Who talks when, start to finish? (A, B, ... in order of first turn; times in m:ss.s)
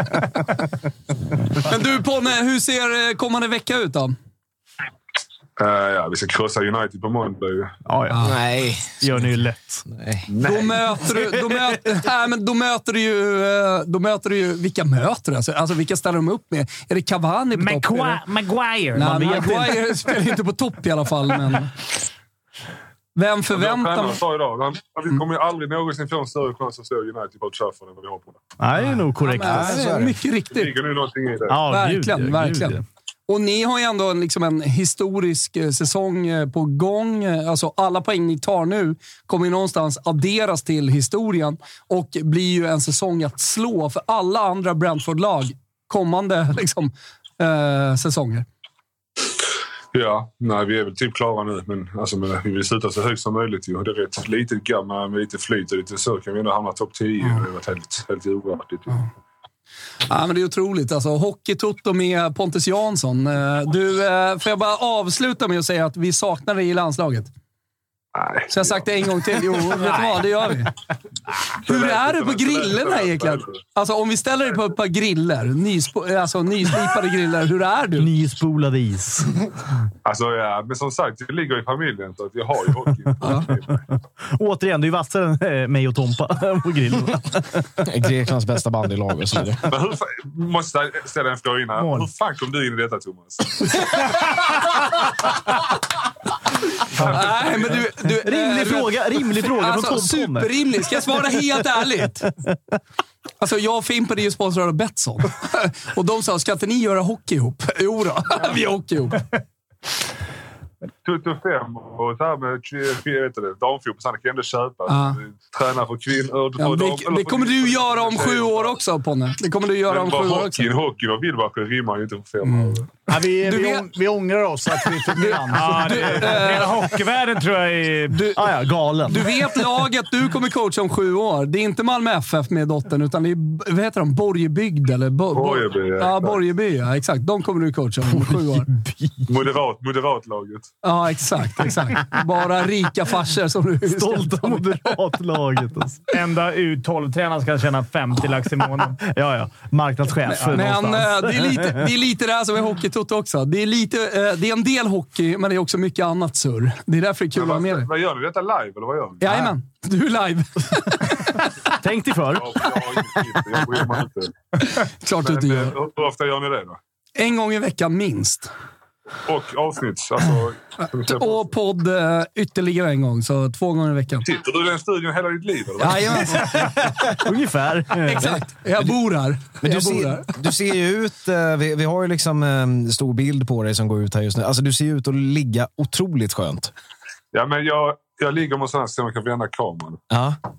0:01.6-0:04.2 A
0:05.6-0:07.7 B
0:07.8-0:08.3 C
0:08.1-0:08.4 A
0:08.2-0:10.3 D
0:09.0-0:09.8 C
0:10.3-0:10.9 B
0:10.4-0:18.2 A
0:17.5-0:19.5 E
0:18.9-0:21.7 A
0:19.0-0:19.8 C
0:23.2-0:24.2 A
0:23.5-0:28.4 B
0:28.6-0:29.8 C
0:28.7-0:30.7 A
0:29.4-0:30.2 D
0:30.5-0:31.6 B
0:31.5-0:32.8 C
0:31.7-0:48.4 A
0:49.9-0:59.0 B
1:00.1-1:07.3 A
1:08.1-1:09.0 B
1:08.5-1:10.7 A
1:11.6-1:13.6 B
1:11.6-1:18.1 A
1:18.0-1:19.3 C
1:20.0-1:23.8 B
1:23.2-1:23.4 A
1:24.3-1:27.6 C
1:27.8-1:29.6 D
1:29.7-1:33.6 B
1:31.8-1:32.1 E
1:36.9-1:42.3 A
1:37.0-1:37.8 B
1:38.0-1:40.6 C
1:43.4-1:49.2 A
1:51.0-1:58.8 B
1:54.9-1:55.2 A
1:56.6-2:00.7 A
1:59.9-2:03.0 B
2:02.5-2:02.8 A
2:03.1-2:06.6 F
2:03.4-2:03.9 A
2:05.1-2:06.8 A
2:05.5-2:08.2 E
2:08.1-2:08.4 A
2:08.4-2:09.6 C
2:09.0-2:18.7 A
2:15.3-2:16.4 B
2:18.2-2:19.2 C
2:19.2-2:20.7 B
2:20.8-2:25.0 A
2:23.8-2:26.0 C
2:26.1-2:29.0 E
2:29.0-2:31.9 C
2:30.2-2:37.9 A
2:30.4-2:30.6 E
2:37.3-2:39.4 B
2:39.2-2:41.5 A
2:41.8-2:42.6 C
2:42.3-2:44.3 B
2:44.7-2:45.7 A
2:45.2-2:46.8 B
2:47.2-2:48.5 A
2:49.2-2:51.5 B
2:51.0-2:54.2 A
2:54.2-2:56.6 B
2:55.8-2:56.7 A
2:57.1-2:58.4 C
2:58.0-3:00.3 A
2:59.6-3:06.7 D
3:07.3-3:10.0 B
3:10.1-3:10.4 D